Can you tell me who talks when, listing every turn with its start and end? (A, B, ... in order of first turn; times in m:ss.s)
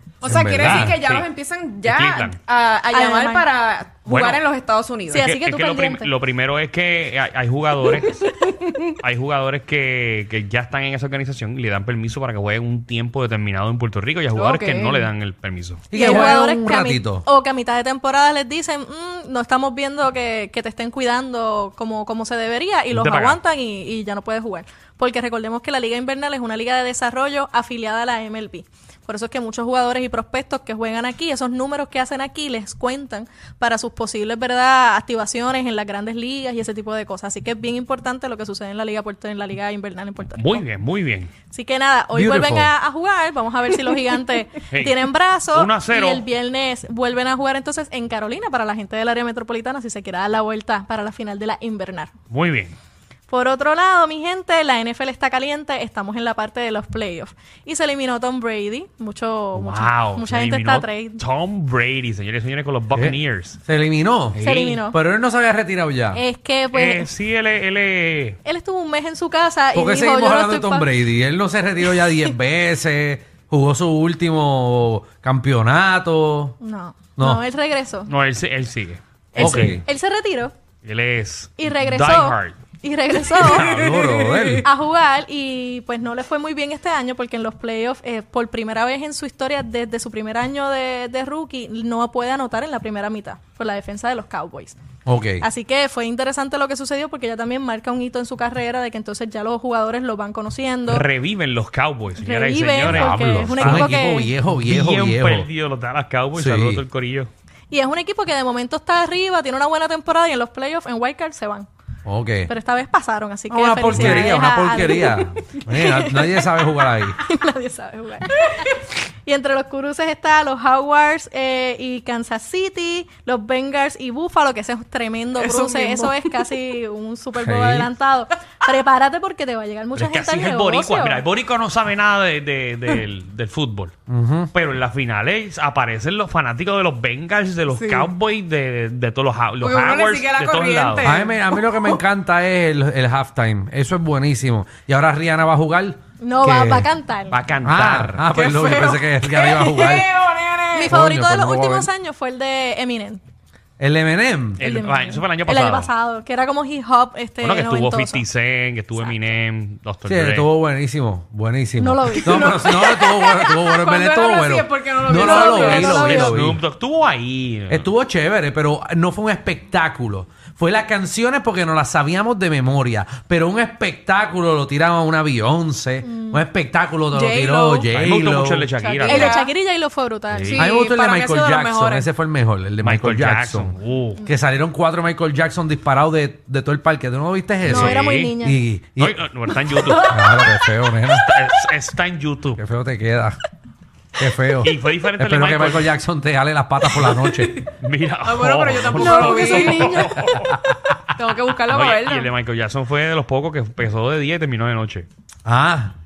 0:00.2-0:05.3 A
0:00.2-0:01.0 B
0:00.6-0:01.3 C
0:01.8-0:02.4 C
0:02.9-0:03.4 D
0:04.0-0:04.4 C
0:05.1-0:06.1 D
0:05.2-0:16.3 C
0:14.3-0:15.1 A
0:15.9-0:17.2 B
0:15.9-0:40.6 D
0:22.9-0:23.4 C
0:40.3-0:41.3 C
0:41.5-0:52.1 D
0:42.1-0:42.7 B
0:44.7-0:46.2 C
0:52.3-0:52.8 C
0:53.3-1:01.2 D
0:59.5-1:03.6 C
1:02.9-1:06.2 B
1:04.3-1:04.8 C
1:04.4-1:05.0 D
1:06.1-1:07.1 D
1:06.7-1:08.4 C
1:08.4-1:10.9 D
1:09.7-1:16.6 B
1:11.9-1:12.3 D
1:16.6-1:18.1 D
1:18.0-1:19.8 C
1:19.3-1:20.5 D
1:19.4-1:19.8 B
1:20.8-1:22.6 C
1:21.6-1:23.7 D
1:23.4-1:23.8 C
1:23.5-1:24.7 B
1:23.7-1:24.6 A
1:24.6-1:34.8 D
1:35.0-1:35.5 B
1:35.4-1:41.0 D
1:40.9-1:44.0 C
1:42.2-1:44.3 D
1:42.8-1:45.5 B
1:44.6-1:47.3 C
1:46.3-1:46.8 B
1:47.7-1:51.7 D
1:52.0-1:52.5 B
1:52.5-2:11.2 D
1:53.5-1:57.2 B
1:53.9-1:54.2 C
2:05.4-2:06.6 A
2:07.3-2:07.9 B
2:09.9-2:13.9 C
2:14.1-2:14.5 B
2:14.5-2:21.2 C
2:17.7-2:18.2 A
2:19.6-2:21.9 A
2:21.0-2:26.9 B
2:26.2-2:27.4 D
2:27.3-2:28.3 C
2:27.6-2:30.1 B
2:28.3-2:30.9 A
2:30.7-2:33.2 D
2:30.8-2:31.9 B
2:33.8-2:34.6 B
2:34.6-2:35.9 C
2:34.6-2:38.2 D
2:37.4-2:40.5 C
2:38.9-2:39.4 D
2:40.0-2:46.6 B
2:41.8-2:42.7 D
2:42.6-2:46.0 A
2:45.2-2:46.4 D
2:45.8-2:47.9 C
2:47.7-2:58.7 B
2:56.0-2:56.4 D
2:57.1-2:57.9 A
2:57.9-2:59.4 C
2:58.8-2:59.5 A
2:59.0-3:00.6 D
3:00.3-3:00.7 C
3:00.5-3:02.1 A
3:00.5-3:09.2 B
3:02.8-3:04.2 C
3:07.6-3:08.3 C
3:07.7-3:08.6 D
3:09.0-3:10.4 C
3:09.9-3:11.3 B
3:11.1-3:12.6 C
3:12.6-3:13.4 B
3:14.2-3:17.6 B
3:14.6-3:15.9 C
3:17.8-3:20.6 C
3:18.2-3:20.2 A
3:19.1-3:20.2 D
3:19.9-3:20.7 B
3:21.2-3:22.3 A
3:21.7-3:25.1 C
3:25.5-3:25.9 B